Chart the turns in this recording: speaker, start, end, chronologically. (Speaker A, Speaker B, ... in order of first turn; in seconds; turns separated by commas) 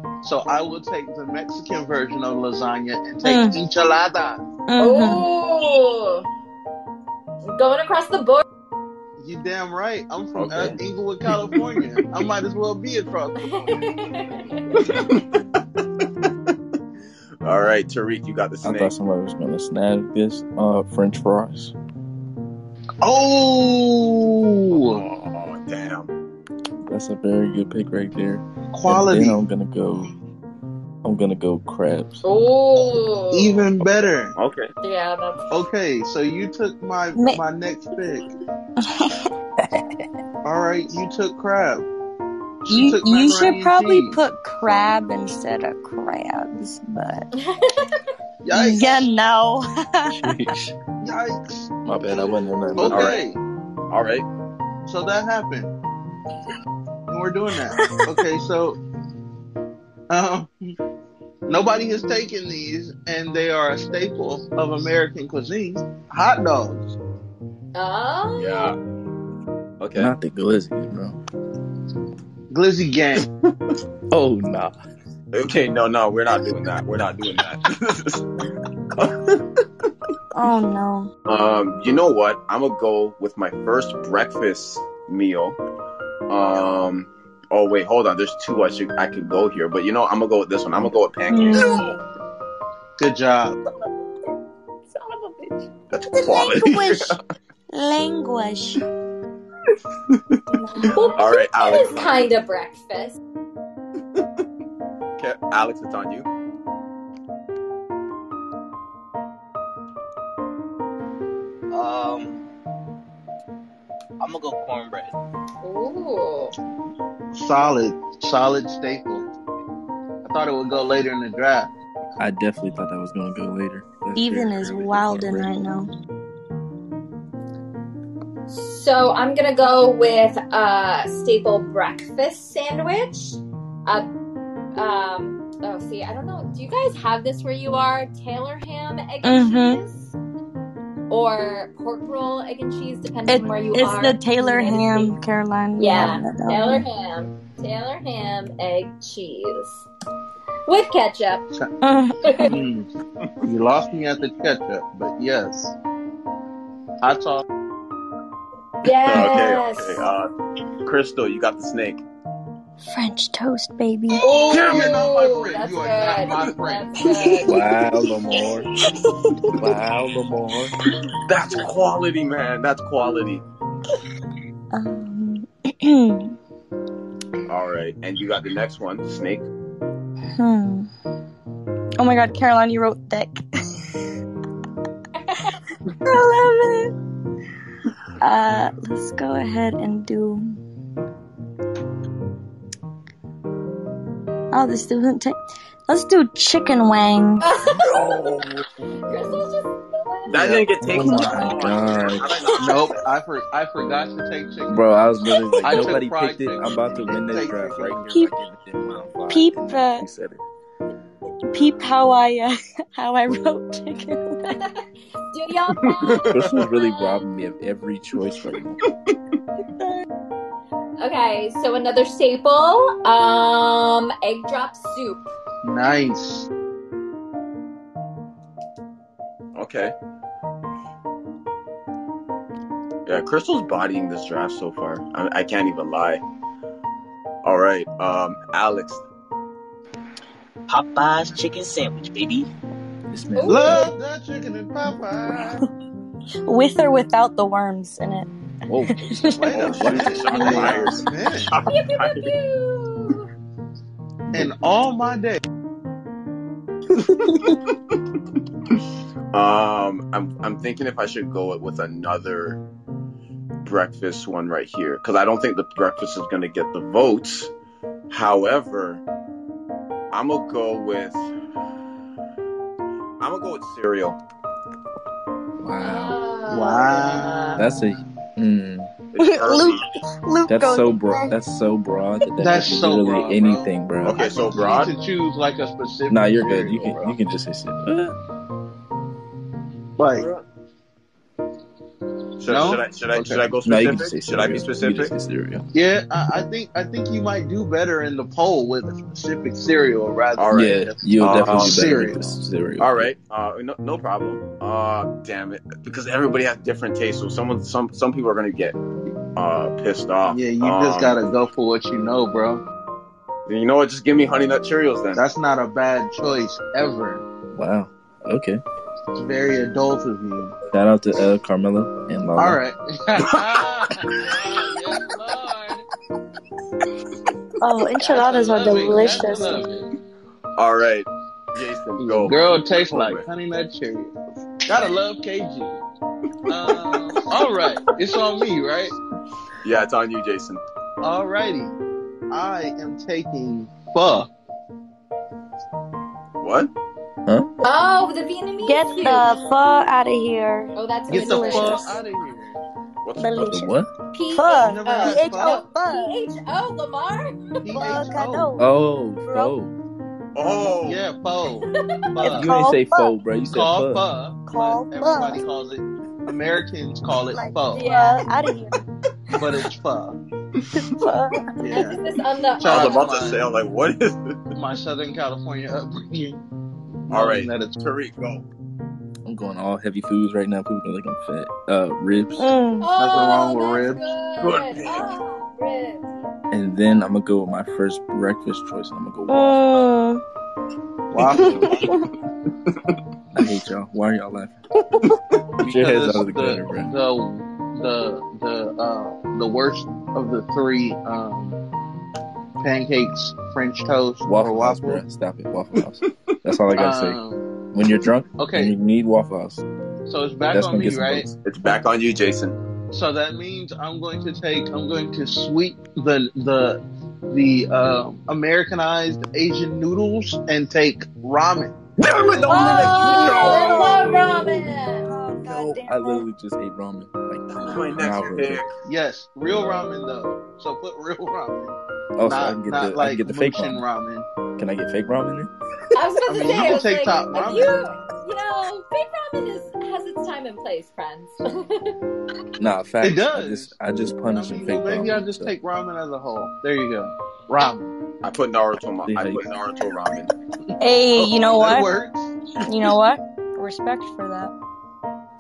Speaker A: 0.2-4.4, Speaker B: 3.2-3.6, Speaker B: 4.7-5.3, Speaker C: 4.8-6.3, Speaker C: 7.5-8.4, Speaker A: 9.2-14.0, Speaker D: 10.3-10.8, Speaker C: 13.4-14.8, Speaker D: 14.8-15.6, Speaker D: 17.4-18.9, Speaker E: 18.6-21.7, Speaker A: 23.0-25.0, Speaker D: 24.8-26.1, Speaker E: 26.9-30.1, Speaker A: 28.7-29.4, Speaker E: 31.0-32.2, Speaker C: 32.2-33.6, Speaker A: 33.3-34.4, Speaker D: 33.8-34.7, Speaker C: 34.8-35.5, Speaker A: 35.5-38.3, Speaker B: 37.1-37.4, Speaker B: 38.8-39.3, Speaker A: 40.4-41.9, Speaker A: 42.7-44.2, Speaker B: 42.7-47.3, Speaker C: 47.4-47.8, Speaker A: 48.4-49.1, Speaker B: 48.5-50.2, Speaker E: 50.1-50.7, Speaker A: 51.0-53.4, Speaker E: 51.9-53.2, Speaker D: 52.9-53.2, Speaker D: 53.9-54.3, Speaker A: 54.9-55.7, Speaker A: 57.1-58.8, Speaker A: 60.1-60.5, Speaker A: 61.5-67.0, Speaker C: 67.8-68.7, Speaker D: 68.4-68.8, Speaker D: 69.8-70.1, Speaker E: 70.0-71.2, Speaker A: 72.5-73.3, Speaker E: 74.1-74.7, Speaker D: 75.3-78.3, Speaker D: 79.0-79.4, Speaker B: 80.3-81.1, Speaker D: 81.3-85.6, Speaker D: 86.3-92.0, Speaker B: 91.3-91.9, Speaker A: 93.0-93.6, Speaker C: 94.9-95.7, Speaker D: 95.9-97.2, Speaker B: 96.1-97.2, Speaker B: 97.7-98.8, Speaker D: 100.1-102.3, Speaker B: 100.5-101.0, Speaker C: 100.9-103.2, Speaker D: 105.2-106.3, Speaker F: 111.7-112.5, Speaker F: 114.2-115.1, Speaker C: 115.6-116.6, Speaker A: 117.3-119.3, Speaker A: 120.2-121.7, Speaker E: 122.2-125.5, Speaker B: 124.2-125.9, Speaker C: 128.5-134.1, Speaker C: 134.8-140.2, Speaker B: 139.2-139.8, Speaker C: 141.1-145.1, Speaker B: 143.3-146.8, Speaker C: 145.8-149.9, Speaker C: 150.7-151.5, Speaker B: 151.8-152.5, Speaker C: 152.2-152.5, Speaker A: 152.5-152.9, Speaker A: 153.4-155.7, Speaker A: 157.0-157.4, Speaker C: 158.8-160.1, Speaker D: 159.0-160.3, Speaker D: 160.8-162.0, Speaker B: 162.9-164.3, Speaker A: 164.1-166.9, Speaker C: 164.2-167.6, Speaker D: 164.5-164.9, Speaker B: 167.0-167.6, Speaker E: 167.5-168.7, Speaker E: 169.6-170.7, Speaker D: 171.2-173.4, Speaker B: 174.7-176.3, Speaker D: 177.5-179.4, Speaker B: 180.4-180.9, Speaker B: 182.0-183.4, Speaker B: 186.0-186.9, Speaker B: 188.2-190.6, Speaker B: 194.5-197.5, Speaker C: 197.4-198.2, Speaker D: 197.8-198.5, Speaker C: 199.1-200.6, Speaker D: 200.3-202.9, Speaker A: 200.3-201.3, Speaker E: 200.9-202.3, Speaker A: 202.6-204.9, Speaker E: 204.7-210.4, Speaker A: 205.6-208.3, Speaker B: 209.3-210.1, Speaker B: 211.5-214.6, Speaker C: 214.5-217.2, Speaker D: 215.8-216.6, Speaker E: 216.3-218.8, Speaker C: 221.0-225.3, Speaker A: 225.6-226.5, Speaker D: 229.6-229.9, Speaker D: 233.1-236.2, Speaker D: 237.4-239.1, Speaker F: 240.7-242.5, Speaker E: 243.1-243.9, Speaker C: 243.3-243.9, Speaker A: 243.5-245.6, Speaker B: 246.5-248.3, Speaker E: 248.7-250.8, Speaker B: 248.9-250.9, Speaker A: 249.4-251.5, Speaker D: 249.5-252.3, Speaker C: 251.7-253.3, Speaker A: 254.3-255.4, Speaker D: 257.1-257.6, Speaker D: 259.3-262.6, Speaker D: 263.6-267.5, Speaker D: 268.1-269.0, Speaker D: 270.1-271.3, Speaker D: 273.2-274.2, Speaker E: 275.6-276.2, Speaker C: 275.8-277.6, Speaker A: 276.5-277.7, Speaker E: 277.6-278.9, Speaker D: 279.1-279.9, Speaker B: 279.2-281.3, Speaker E: 280.5-284.2, Speaker A: 282.4-287.2, Speaker D: 284.0-284.9, Speaker E: 286.1-288.2, Speaker A: 290.0-290.3, Speaker D: 290.2-290.4, Speaker D: 292.4-295.1, Speaker A: 292.5-293.4, Speaker E: 293.6-295.6, Speaker A: 295.7-302.3, Speaker D: 300.4-301.8, Speaker E: 300.5-303.1, Speaker D: 302.8-308.8, Speaker D: 309.4-311.2, Speaker A: 310.3-312.6, Speaker D: 313.5-315.2, Speaker A: 315.2-317.2, Speaker E: 317.5-318.6, Speaker A: 319.2-320.6, Speaker E: 320.7-322.6, Speaker A: 322.4-325.8, Speaker B: 327.6-329.7, Speaker A: 328.0-329.9, Speaker D: 330.6-333.3, Speaker A: 332.0-334.1, Speaker A: 334.6-335.8, Speaker A: 336.5-338.9, Speaker D: 339.6-340.6, Speaker A: 341.0-341.8, Speaker A: 342.3-344.3, Speaker D: 346.4-346.7, Speaker C: 347.6-349.3, Speaker B: 348.6-352.0, Speaker C: 350.8-352.0, Speaker A: 351.1-352.6, Speaker D: 353.0-353.5, Speaker B: 353.2-353.8, Speaker E: 353.4-353.9, Speaker C: 354.1-357.6, Speaker B: 354.3-356.2, Speaker A: 354.7-355.6, Speaker A: 357.6-358.5, Speaker B: 357.7-358.7, Speaker E: 358.6-359.7, Speaker B: 359.2-359.5, Speaker D: 360.4-361.0, Speaker A: 360.8-362.5, Speaker B: 362.2-363.1, Speaker E: 362.3-364.1, Speaker A: 363.5-367.9, Speaker B: 364.5-365.4, Speaker B: 367.3-368.8, Speaker C: 367.7-368.3, Speaker A: 369.4-370.2, Speaker B: 370.8-371.6, Speaker A: 371.6-372.0, Speaker C: 371.7-373.1, Speaker A: 372.6-373.5, Speaker D: 372.6-374.4, Speaker A: 374.5-376.4, Speaker A: 377.1-377.8, Speaker D: 377.1-378.4, Speaker E: 379.2-382.5, Speaker B: 382.4-382.9, Speaker C: 382.8-386.3, Speaker A: 383.0-384.0, Speaker D: 384.4-385.1, Speaker E: 386.5-389.6, Speaker B: 389.3-390.2, Speaker A: 391.1-391.9, Speaker B: 391.3-392.0, Speaker E: 393.3-394.6, Speaker A: 395.6-401.6, Speaker E: 395.6-396.9, Speaker A: 402.6-405.0, Speaker E: 404.2-407.2, Speaker A: 406.8-407.4, Speaker E: 407.7-409.6, Speaker A: 408.4-408.7, Speaker A: 410.1-411.3, Speaker E: 410.5-411.4, Speaker D: 411.4-412.6, Speaker A: 412.9-421.8, Speaker D: 422.0-423.9, Speaker C: 422.5-425.1, Speaker B: 422.5-426.2, Speaker E: 425.4-428.6, Speaker D: 427.5-428.7, Speaker A: 428.9-434.3, Speaker E: 432.2-433.8, Speaker E: 434.6-435.5, Speaker C: 435.9-441.9, Speaker A: 436.3-437.8, Speaker E: 442.6-445.5, Speaker A: 443.0-443.7, Speaker A: 444.3-447.9, Speaker D: 448.2-450.3, Speaker E: 449.0-449.4, Speaker B: 450.8-451.9, Speaker A: 451.1-452.4, Speaker B: 452.6-454.5